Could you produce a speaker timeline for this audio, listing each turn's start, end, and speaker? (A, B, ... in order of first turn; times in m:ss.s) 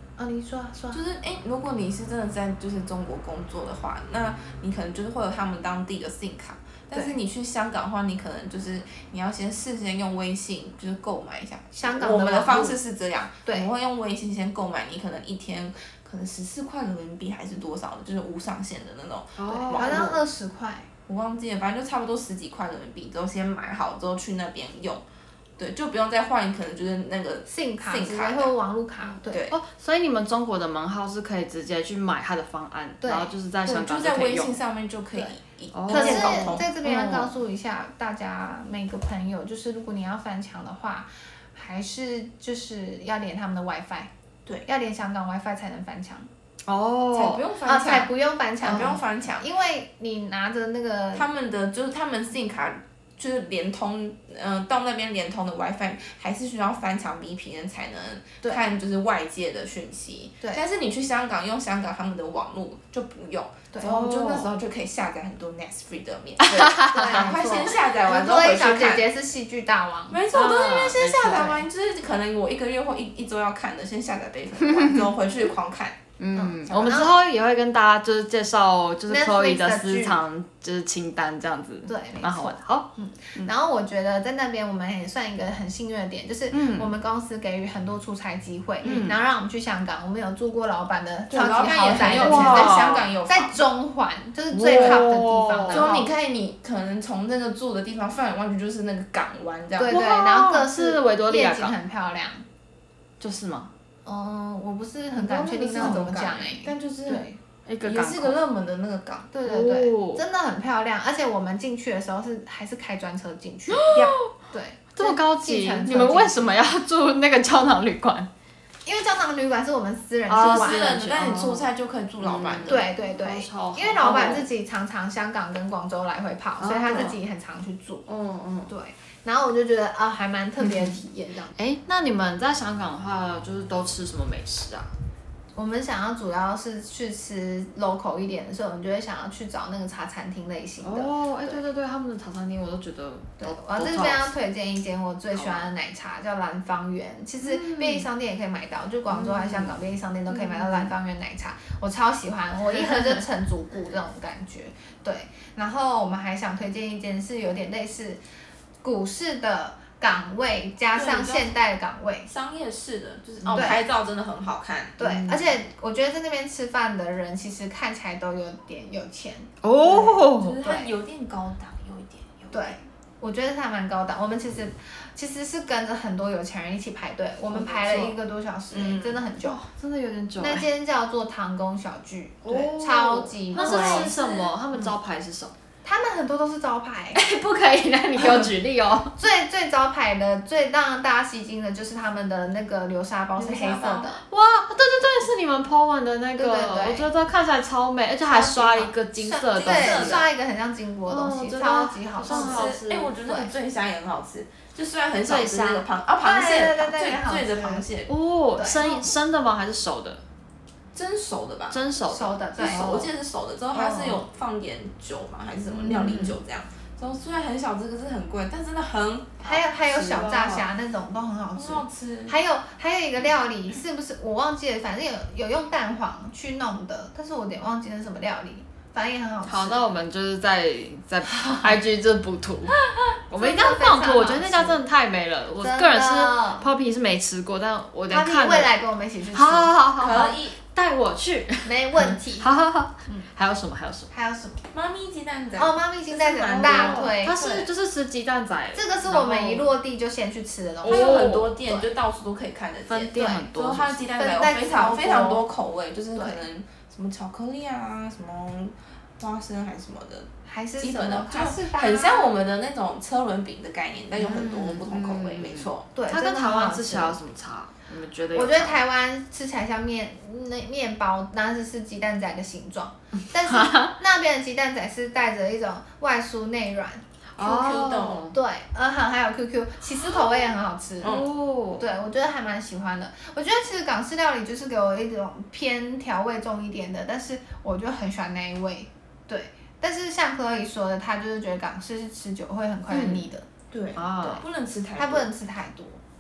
0:00.2-0:01.0 A
0:00.9-0:20.2 B
0:11.7-0:12.8 A
0:19.4-0:20.1 C
0:19.7-0:20.9 A
0:21.1-0:25.0 B
0:25.6-0:28.5 B
0:27.5-0:29.4 A
0:29.3-0:29.6 B
0:29.5-0:34.6 C
0:33.0-0:33.3 A
0:33.6-0:36.7 B
0:35.7-0:37.3 C
0:35.9-0:44.1 A
0:44.6-0:46.3 A
0:46.7-0:47.4 C
0:47.1-0:49.4 B
0:47.6-0:51.3 A
0:51.1-1:09.1 B
1:03.8-1:04.5 C
1:06.4-1:07.4 C
1:06.8-1:10.2 A
1:10.1-1:16.0 B
1:10.3-1:11.6 C
1:11.2-1:11.6 A
1:14.6-1:15.1 C
1:16.2-1:23.5 C
1:16.3-1:17.1 A
1:19.1-1:20.2 A
1:21.9-1:36.1 A
1:26.5-1:26.9 C
1:28.8-1:29.2 C
1:28.8-1:29.1 B
1:31.3-1:33.6 B
1:32.0-1:33.1 C
1:34.5-1:35.9 C
1:34.7-1:35.0 B
1:35.7-1:40.0 B
1:39.8-1:42.4 A
1:39.8-1:41.7 C
1:43.2-1:43.7 C
1:44.0-1:47.4 A
1:45.2-1:47.3 B
1:45.7-1:46.1 C
1:47.6-1:48.4 C
1:47.8-1:49.3 B
1:49.3-1:56.6 A
1:49.4-1:50.2 C
1:53.7-1:54.3 C
1:55.0-1:58.3 C
1:58.8-2:01.0 A
2:00.3-2:01.6 C
2:00.4-2:02.8 B
2:02.2-2:04.5 C
2:02.7-2:08.0 A
2:06.6-2:07.2 C
2:08.1-2:08.7 C
2:08.7-2:11.5 A
2:10.6-2:11.0 C
2:11.6-2:14.9 C
2:15.5-2:21.6 A
2:20.8-2:24.3 C
2:23.4-2:38.2 A
2:25.3-2:25.7 C
2:27.4-2:28.1 C
2:29.1-2:29.8 C
2:30.3-2:30.9 C
2:38.8-2:42.3 A
2:40.9-2:41.5 B
2:42.2-2:45.0 B
2:43.4-2:43.7 C
2:43.5-2:43.8 A
2:45.0-2:50.9 A
2:45.0-2:45.5 C
2:49.6-2:50.6 C
2:50.4-2:52.8 B
2:52.5-2:59.6 A
2:57.5-2:58.1 C
2:58.7-2:59.2 B
2:59.4-3:00.6 C
3:00.4-3:04.2 A
3:02.4-3:05.5 C
3:03.5-3:04.5 B
3:05.8-3:07.2 A
3:07.1-3:09.1 C
3:09.2-3:14.2 A
3:13.4-3:14.1 B
3:14.3-3:20.2 C
3:16.4-3:17.1 A
3:18.3-3:22.7 A
3:19.6-3:20.2 B
3:21.1-3:23.1 C
3:22.2-3:28.1 B
3:25.2-3:25.8 C
3:26.2-3:27.8 A
3:28.1-3:30.2 C
3:28.6-3:29.1 A
3:30.9-3:31.8 B
3:31.7-3:33.1 C
3:32.1-3:32.8 A
3:32.6-3:40.6 B
3:33.7-3:34.2 C
3:35.8-3:36.4 C
3:39.4-3:49.8 A
3:40.0-3:40.5 C
3:41.6-3:42.4 B
3:49.4-3:52.7 C
3:51.3-3:51.7 A
3:53.3-3:58.7 C
3:53.3-3:54.8 A
3:55.6-3:56.7 A
3:58.1-4:00.3 A
3:59.3-4:04.1 C
4:00.0-4:00.6 B
4:01.6-4:02.5 A
4:04.1-4:04.6 A
4:04.7-4:07.7 B
4:05.6-4:07.4 A
4:06.5-4:09.7 C
4:08.7-4:11.9 A
4:10.8-4:11.5 C
4:10.8-4:25.9 B
4:12.9-4:14.0 C
4:13.1-4:13.5 A
4:14.2-4:15.4 A
4:16.1-4:16.4 A
4:20.4-4:22.3 A
4:24.2-4:28.8 C
4:26.0-4:27.2 A
4:28.3-4:37.0 A
4:33.4-4:33.9 C
4:37.4-4:38.3 C
4:37.4-4:38.3 B
4:38.3-4:41.2 A
4:41.0-4:41.3 B
4:41.0-4:41.8 C
4:41.8-4:53.4 A
4:52.9-4:53.3 C
4:53.7-4:55.3 B
4:54.0-4:54.4 C
4:55.0-4:56.0 A